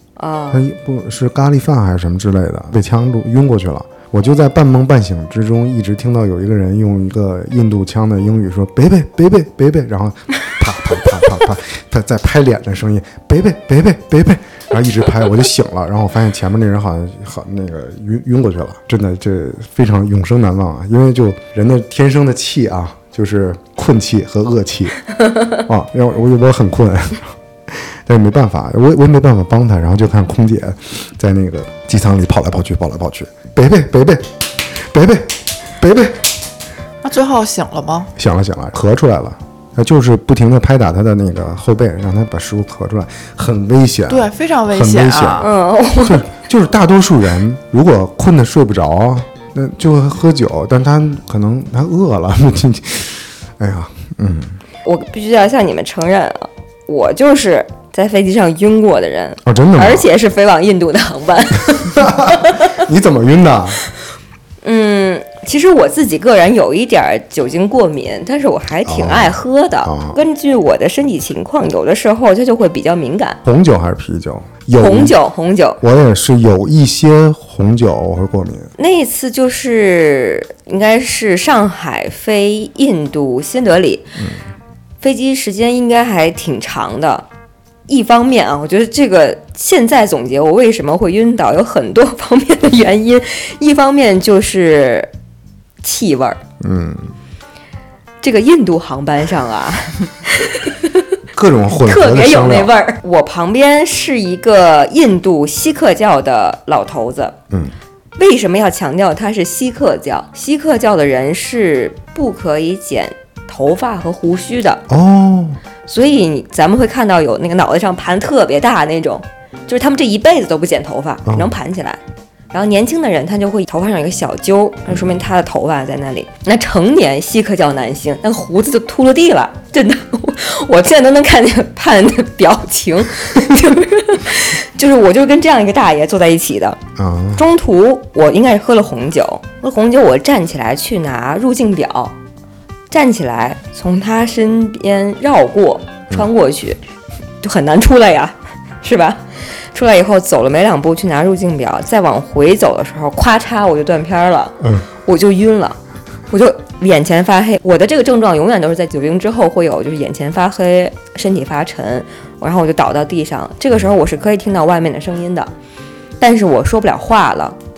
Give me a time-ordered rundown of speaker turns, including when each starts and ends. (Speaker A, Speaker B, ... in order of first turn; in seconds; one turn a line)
Speaker A: 0.2-0.6
Speaker B: 0.5-36.3
Speaker C: 37.0-38.1
Speaker B: 38.2-45.5
Speaker C: 44.1-45.5
Speaker A: 45.4-46.3
Speaker B: 46.0-54.6
Speaker A: 54.9-62.8
Speaker B: 59.5-60.1
Speaker B: 61.9-63.8
Speaker A: 64.6-73.4
Speaker B: 68.9-70.2
Speaker B: 73.4-75.2
Speaker A: 74.8-75.8
Speaker B: 75.8-78.7
Speaker A: 78.8-84.1
Speaker A: 85.0-87.3
Speaker A: 87.9-95.1
Speaker A: 95.8-96.4
Speaker B: 96.6-97.1
Speaker A: 98.2-101.1
Speaker B: 101.3-102.7
Speaker A: 101.8-107.4
Speaker A: 108.2-114.8
Speaker B: 114.9-115.6
Speaker A: 115.9-122.0
Speaker B: 121.3-121.5
Speaker A: 122.5-136.8
Speaker B: 124.9-125.2
Speaker B: 137.0-137.4
Speaker A: 137.3-142.2
Speaker A: 142.9-146.8
Speaker A: 147.4-155.8
Speaker A: 156.3-165.5
Speaker A: 166.2-167.6